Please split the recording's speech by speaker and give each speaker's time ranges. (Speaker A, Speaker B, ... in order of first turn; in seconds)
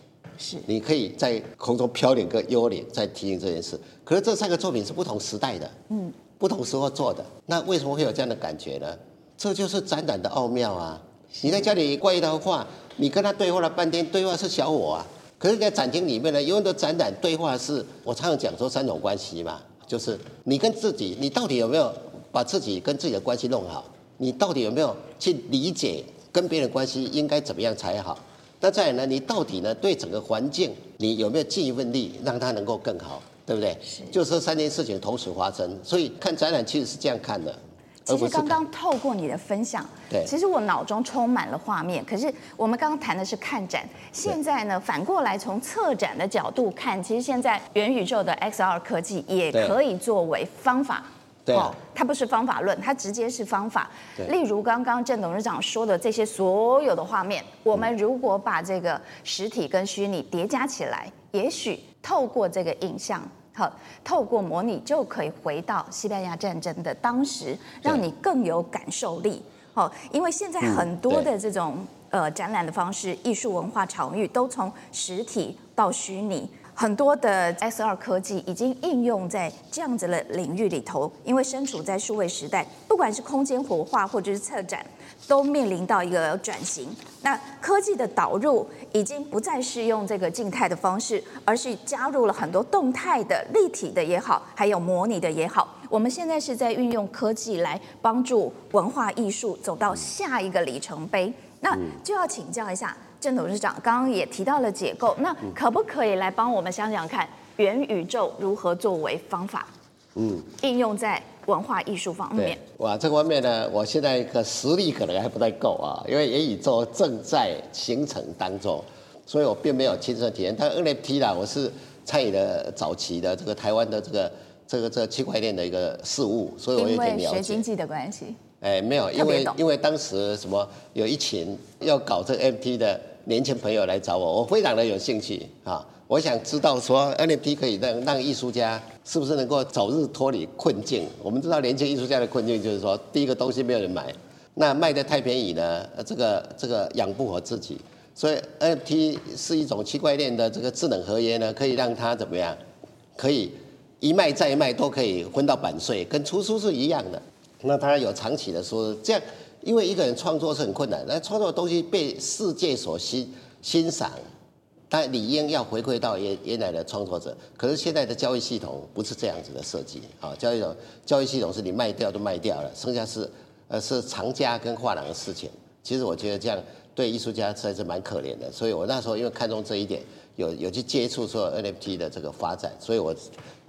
Speaker A: 0.4-0.7, 5.9-6.2, 33.8-34.1, 38.0-109.7, 110.6-112.6, 126.8-128.4, 129.1-129.6
Speaker B: 0.7-5.7, 6.4-38.6, 51.5-51.7, 70.6-71.3, 110.2-110.5, 112.3-127.6, 128.6-152.6, 153.2-164.2, 164.9-183.2